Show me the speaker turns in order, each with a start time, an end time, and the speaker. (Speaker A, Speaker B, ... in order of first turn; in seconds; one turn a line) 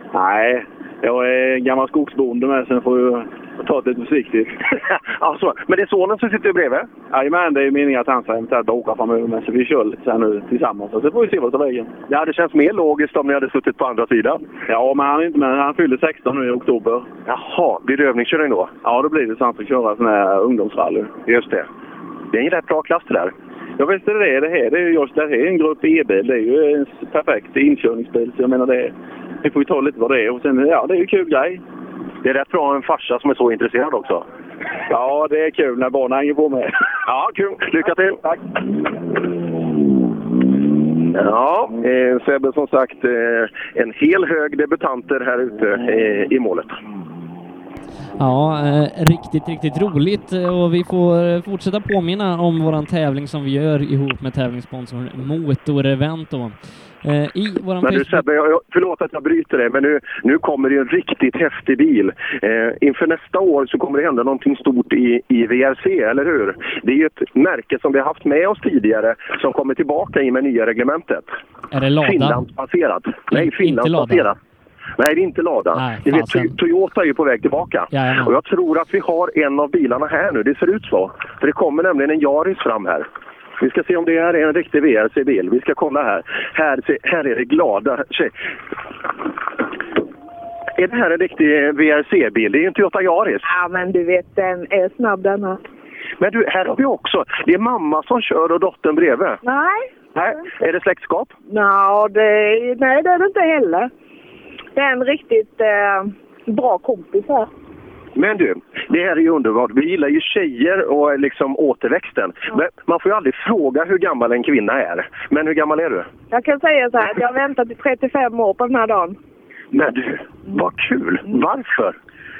Speaker A: 0.1-4.5
Speaker B: 4.7-6.9
Speaker A: 7.1-11.9
Speaker B: 12.1-14.4
Speaker A: 14.7-17.1
Speaker B: 17.3-18.7
Speaker A: 18.8-21.2
Speaker B: 21.2-21.6
Speaker B: 22.3-23.3
Speaker A: 23.8-31.6
Speaker B: 32.2-34.2
Speaker A: 34.9-36.8
Speaker B: 37.1-38.2
Speaker B: 41.1-46.8
Speaker C: 48.2-58.2
Speaker B: 57.8-71.3
Speaker C: 71.7-72.4
Speaker B: 72.0-74.3
Speaker C: 73.3-74.3
Speaker B: 75.0-83.1
Speaker C: 75.8-76.5
Speaker C: 77.9-78.3
Speaker B: 83.6-88.3
Speaker B: 90.8-93.4
Speaker D: 93.4-95.6
Speaker B: 96.2-99.4
Speaker D: 99.4-99.9
Speaker B: 100.1-101.3
Speaker D: 101.5-103.9
Speaker D: 104.7-107.5
Speaker B: 108.2-116.1
Speaker D: 116.3-119.2
Speaker B: 119.7-122.0